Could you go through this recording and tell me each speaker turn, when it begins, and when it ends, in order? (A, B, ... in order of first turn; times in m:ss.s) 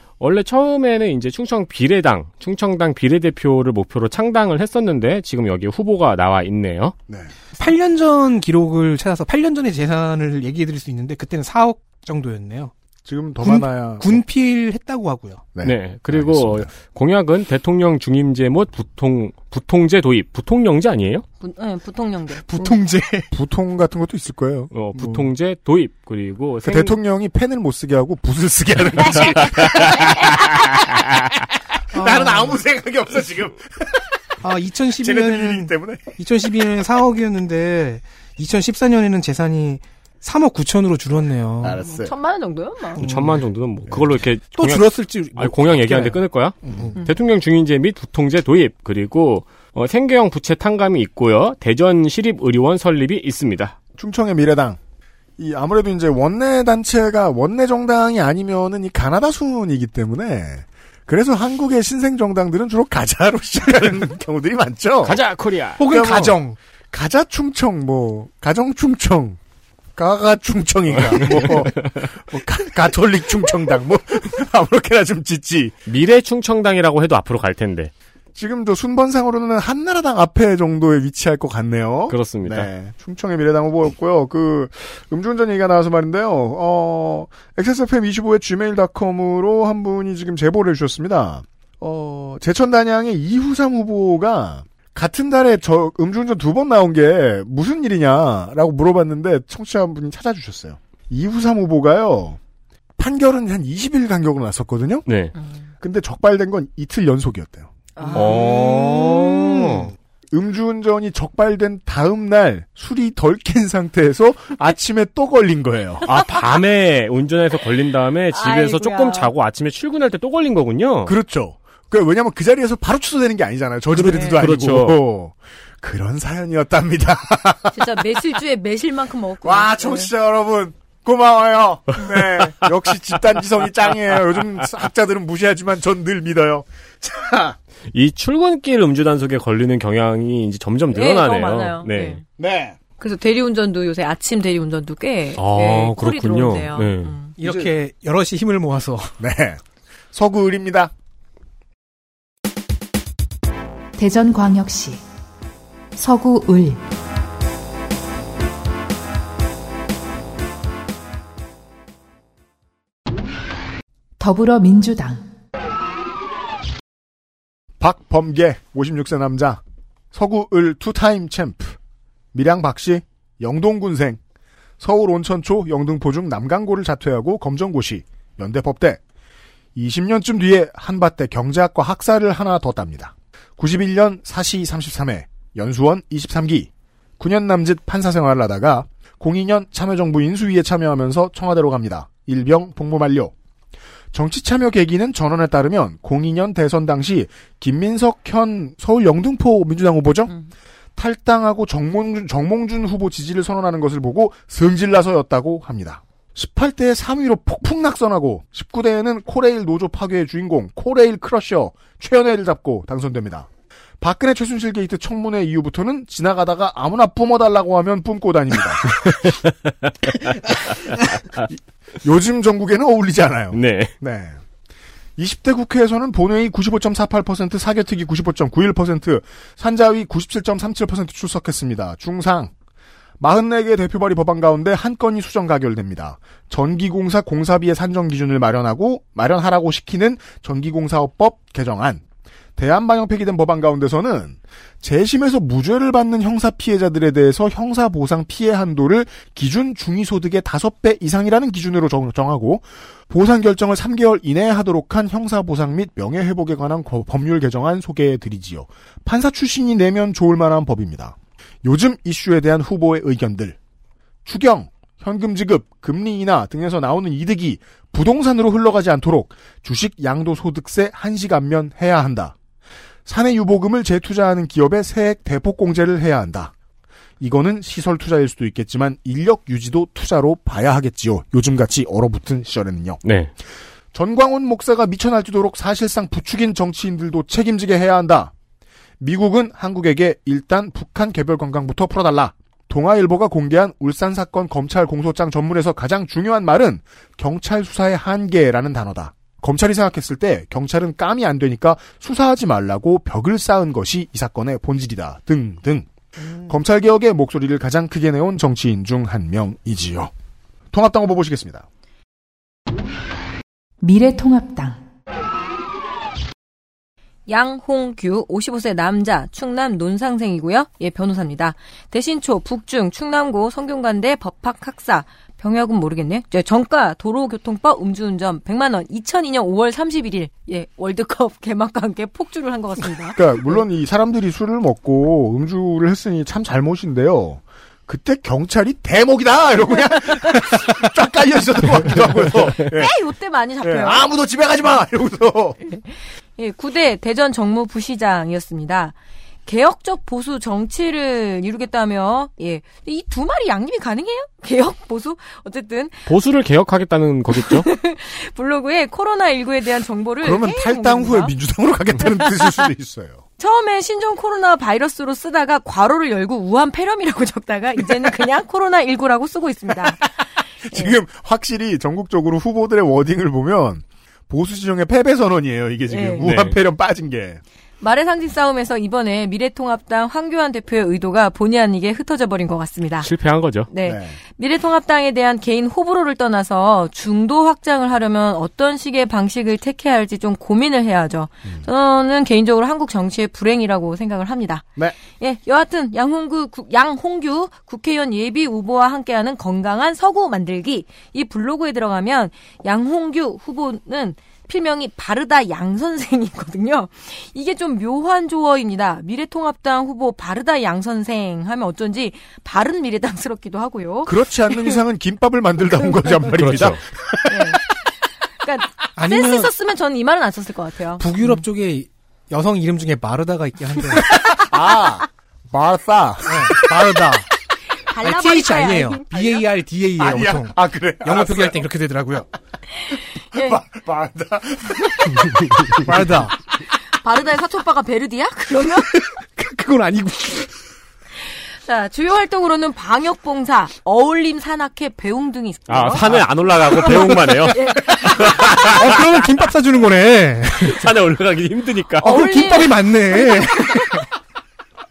0:00.2-0:06.9 A
0:07.1-0:07.3 B
0:07.6-0:12.7 C
0:13.0-0:14.2 B
0:13.4-0:15.5 C
0:15.6-0:16.7 B
0:15.6-0:21.2 A
0:21.4-0:22.4 D
0:22.4-0:23.3 C
0:23.3-0:24.7 B
0:24.7-0:27.0 A
0:25.0-0:25.3 C
0:26.6-0:30.8 B
0:29.2-0:30.3 A
0:31.9-0:32.6 C
0:31.9-0:34.1 B
0:34.4-0:41.8 C
0:35.0-0:36.2 B
0:41.6-0:42.1 B
0:41.8-0:43.0 D
0:43.0-0:43.4 C
0:43.0-0:53.8 A
0:44.6-0:47.1 C
0:46.6-0:46.9 B
0:54.0-0:54.8 B
0:55.4-1:05.2 B
1:05.0-1:05.8 A
1:05.8-1:06.6 C
1:05.8-1:09.4 B
1:10.0-1:15.8 B
1:11.0-1:12.1 A
1:15.9-1:17.9 A
1:18.4-1:42.4 B
1:22.1-1:22.7 A
1:43.0-1:45.1 B
1:45.1-1:45.3 A
1:45.8-1:47.7 B
1:48.0-1:48.4 D
1:48.0-1:49.9 C
1:48.1-1:49.9 A
1:50.3-1:56.1 B
1:56.1-2:01.2 A
1:58.3-1:59.3 D
2:01.0-2:07.8 B
2:03.9-2:05.0 A
2:04.1-2:04.4 D
2:07.7-2:10.1 D
2:09.4-2:17.6 B
2:17.9-2:22.2 A
2:20.9-2:22.2 D
2:22.4-2:22.8 B
2:23.0-2:27.3 D
2:25.4-2:27.1 A
2:27.4-2:29.2 C
2:27.4-2:27.7 B
2:29.2-2:29.6 B
2:30.1-2:30.9 B
2:34.0-2:35.0 E
2:36.0-2:36.8 E
2:44.2-2:45.3 E
2:47.8-2:49.6 B
2:50.1-2:51.8 B
2:52.3-2:54.2 B
2:54.8-2:59.0 B
2:59.8-3:13.3 B
3:14.1-3:20.3 B
3:21.0-3:33.5 B
3:34.0-3:39.1 B
3:39.0-3:40.3 A
3:41.5-3:44.4 B
3:43.5-3:43.9 A
3:45.2-3:52.5 B
3:53.2-4:02.0 B
4:02.6-4:23.6 B
4:24.3-4:32.4 B
4:33.1-4:36.5 B
4:37.2-4:43.0 B
4:43.0-4:43.3 A
4:43.9-4:48.3 B
4:49.0-5:05.9 B
5:06.4-5:10.1 B
5:10.7-5:11.7 B
5:13.8-5:14.8 E
5:17.3-5:33.6 D
5:33.2-5:43.0 B
5:42.7-5:44.1 D
5:43.6-5:45.6 B
5:46.4-5:49.0 D
5:49.5-5:56.0 D
5:56.1-5:57.7 A
5:57.4-6:01.3 D
6:00.2-6:03.2 B
6:03.4-6:10.1 D
6:10.6-6:17.4 B
6:10.7-6:11.0 D
6:15.9-6:16.3 D
6:16.2-6:16.6 A
6:17.8-6:23.1 D
6:23.0-6:23.7 A
6:23.7-6:54.8 D
6:23.8-6:24.2 B
6:54.0-6:57.6 B
6:56.3-6:56.8 A
6:57.3-6:57.6 D
6:58.4-7:01.0 D
6:59.0-6:59.5 C
7:01.0-7:04.2 C
7:04.3-7:07.1 B
7:06.3-7:07.3 C
7:07.8-7:09.4 D
7:08.0-7:12.3 C
7:10.0-7:11.6 B
7:13.3-7:13.6 D
7:13.3-7:16.2 B
7:15.8-7:16.4 C
7:16.9-7:19.0 D
7:18.8-7:20.5 C
7:21.2-7:26.0 D
7:25.7-7:27.6 A
7:26.8-7:30.8 C
7:27.5-7:28.7 D
7:28.2-7:28.9 A
7:30.6-7:32.4 A
7:32.0-7:34.0 C
7:32.0-7:34.0 D